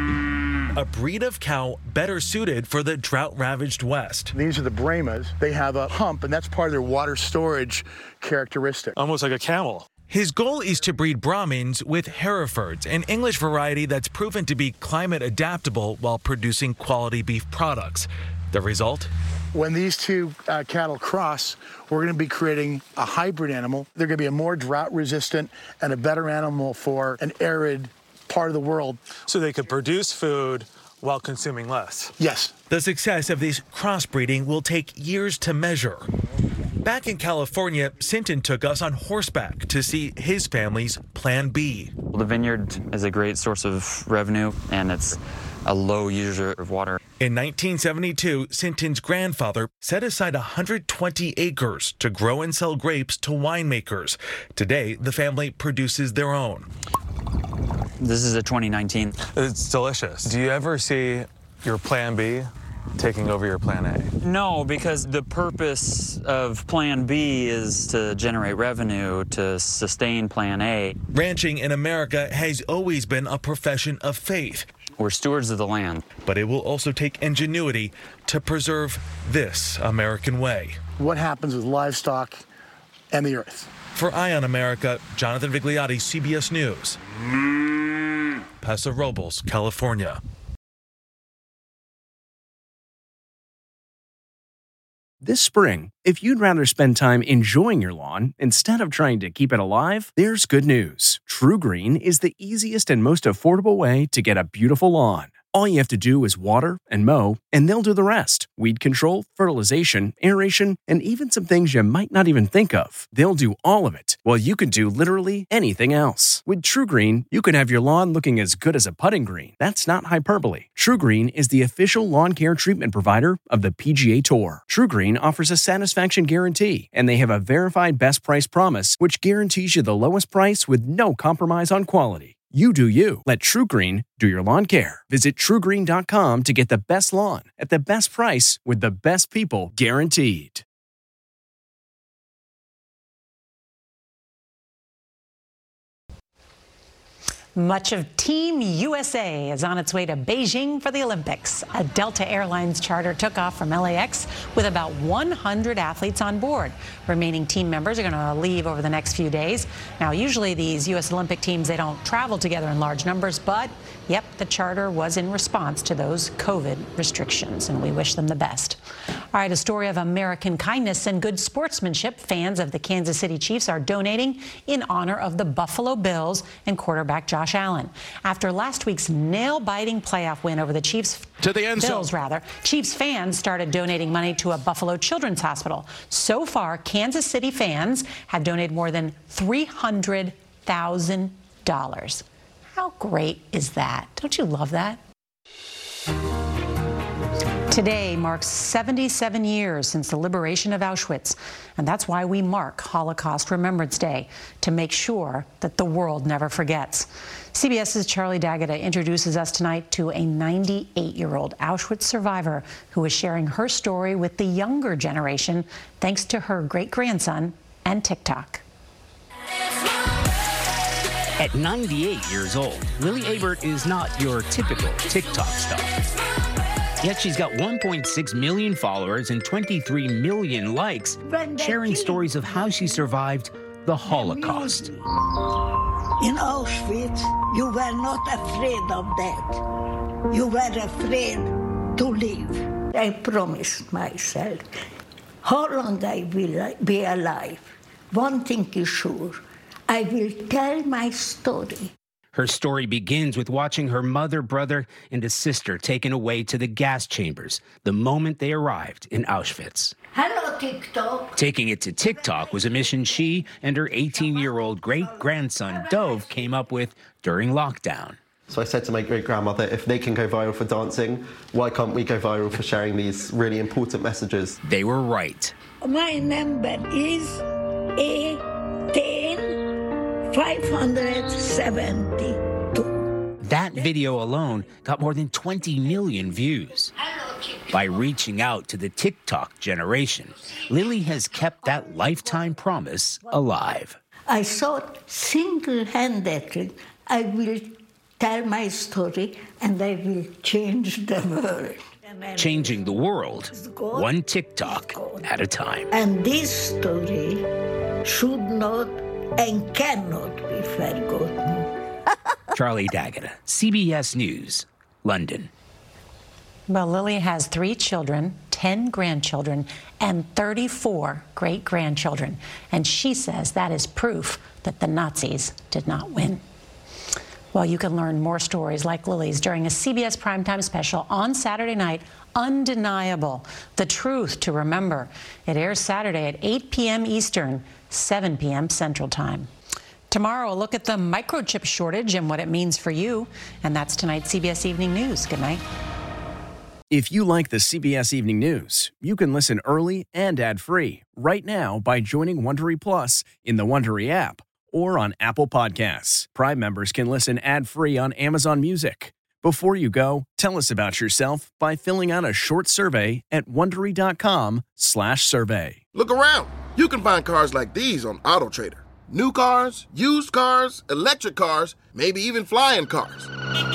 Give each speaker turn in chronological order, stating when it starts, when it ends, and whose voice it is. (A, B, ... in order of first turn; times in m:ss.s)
0:00.7-0:04.3 A
0:04.3-0:09.0 B
0:09.0-0:09.8 C
0:10.1-0:19.1 A
0:19.5-0:29.0 B
0:29.3-0:32.1 C
0:32.2-0:32.5 B
0:32.7-0:36.1 A
0:36.8-0:41.9 A
0:42.1-0:47.0 D
0:47.2-0:56.7 A
0:58.0-0:59.1 D
0:59.4-1:02.4 C
1:03.0-1:04.1 C
1:04.2-1:11.0 D
1:11.1-1:14.7 A
1:15.0-1:16.0 D
1:16.2-1:20.8 A
1:21.0-1:22.4 B
1:23.1-1:23.7 B
1:23.9-1:27.0 A
1:28.6-1:30.2 A
1:35.2-2:20.6 E
2:27.5-2:48.8 F
2:49.3-3:15.0 F
3:17.7-3:38.6 F
3:41.4-3:46.0 G
3:47.0-3:54.9 G
3:51.2-3:52.6 H
3:54.0-3:55.0 H
3:56.2-3:59.6 H
4:00.3-4:04.7 H
4:05.4-4:11.9 H
4:12.3-4:19.9 G
4:20.1-4:21.4 H
4:21.4-4:28.2 G
4:28.5-4:34.6 I
4:34.6-4:35.5 G
4:35.8-4:37.4 H
4:38.0-4:39.6 H
4:40.3-4:42.9 H
4:43.4-4:46.9 G
4:47.7-4:54.0 G
4:54.3-5:02.8 H
5:02.4-5:05.9 G
5:03.5-5:04.1 H
5:04.6-5:05.2 H
5:05.9-5:07.4 H
5:08.0-5:11.6 H
5:12.5-5:15.5 G
5:16.7-5:26.4 F
5:27.5-5:39.5 F
5:40.1-5:45.6 F
5:46.9-6:05.8 E
6:05.9-6:13.3 J